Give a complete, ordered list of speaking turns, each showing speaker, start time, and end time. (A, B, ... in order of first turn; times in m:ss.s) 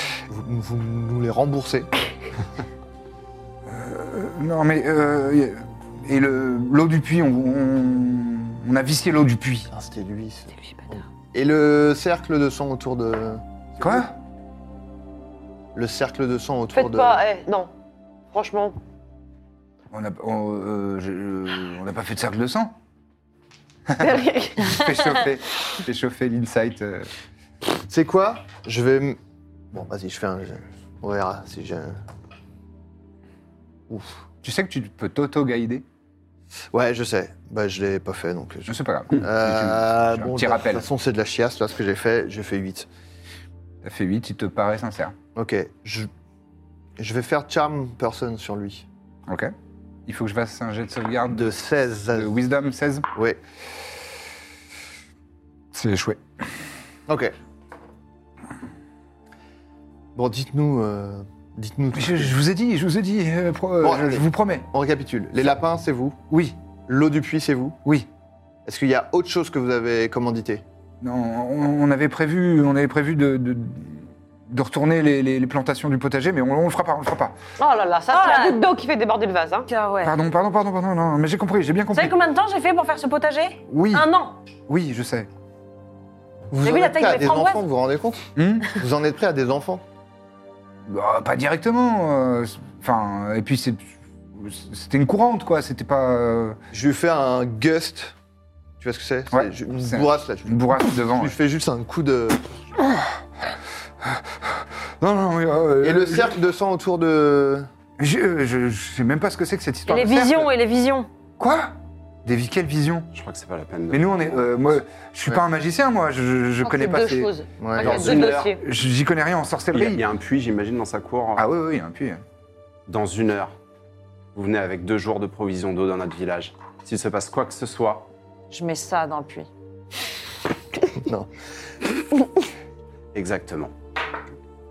0:00.3-0:01.9 A
0:03.7-0:09.7 B
0:09.7-0:14.0 A
0:10.6-0:11.0 C
0:13.8-0:14.2 B
0:15.7-0:17.2 A
0:16.7-0:17.7 C
0:18.3-0:18.8 C
0:19.9-0:22.8 B
0:23.9-0:27.1 B
0:24.0-0:24.9 C
0:27.9-0:29.2 A
0:29.7-0:32.0 A
0:33.9-0:34.2 A
0:34.4-0:35.8 B
0:36.7-0:42.9 A
0:38.7-0:40.8 B
0:43.8-0:45.1 B
0:45.3-0:46.1 A
0:47.0-0:48.8 A
0:49.3-0:49.5 B
0:50.1-0:51.5 B
0:51.3-0:52.4 A
0:52.1-0:53.1 B
0:53.1-0:53.4 A
0:55.7-0:56.2 B
0:57.1-0:57.3 A
1:00.1-1:02.4 A
1:01.9-1:04.7 B
1:03.8-1:06.2 A
1:06.3-1:06.6 B
1:06.9-1:07.8 A
1:08.6-1:10.6 A
1:11.0-1:17.4 B
1:17.6-1:19.7 C
1:18.1-1:18.6 D
1:19.7-1:20.1 D
1:20.0-1:22.2 B
1:21.9-1:24.3 D
1:23.7-1:24.1 B
1:24.7-1:25.3 B
1:26.5-1:29.8 A
1:26.6-1:27.6 D
1:28.4-1:28.8 B
1:30.9-1:36.6 B
1:36.7-1:38.2 A
1:38.8-1:42.4 A
1:39.3-1:41.4 B
1:42.8-1:43.2 B
1:44.0-1:46.4 B
1:45.8-1:47.7 A
1:48.0-1:50.5 B
1:49.9-1:51.1 D
1:51.4-1:51.7 B
1:52.2-1:53.1 B
1:53.1-1:54.5 E
1:53.9-1:57.3 B
1:56.6-1:58.6 C
1:57.6-1:58.0 A
1:57.8-1:58.6 E
1:57.8-2:00.0 B
1:59.7-2:01.4 E
2:01.4-2:02.2 B
2:02.9-2:03.5 E
2:04.3-2:08.1 E
2:08.5-2:09.5 D
2:11.0-2:11.3 A
2:13.1-2:13.7 E